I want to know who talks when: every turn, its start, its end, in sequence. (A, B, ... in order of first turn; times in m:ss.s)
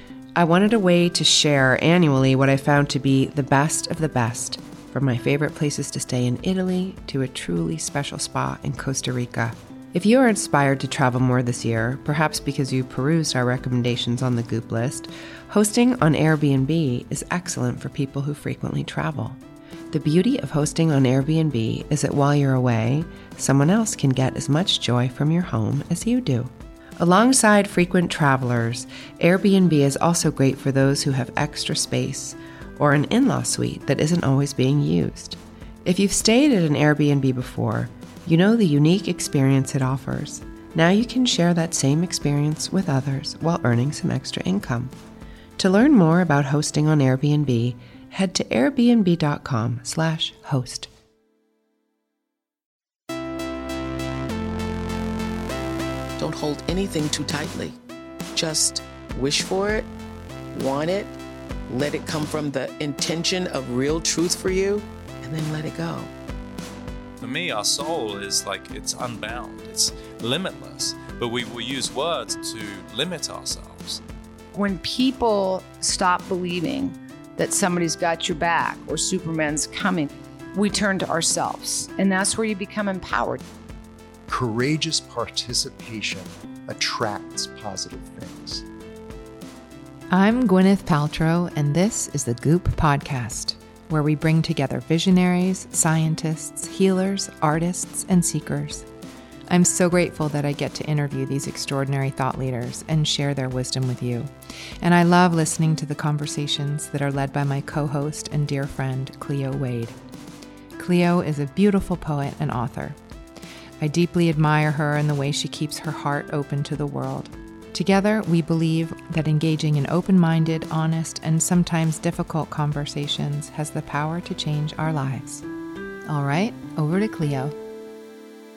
0:00.4-0:19.4 A
0:19.9-0:44.9 A
0:45.6-0:50.9 A
0:56.2-0:57.8 B
0:58.3-0:59.9 B
1:00.5-1:01.1 B
1:01.7-1:06.1 B
1:07.2-1:14.0 C
1:14.5-1:23.4 D
1:24.3-1:28.6 E
1:30.1-1:38.9 F
1:39.5-1:50.0 F
1:50.8-1:53.0 F
1:53.8-2:05.4 F
2:06.0-2:07.5 F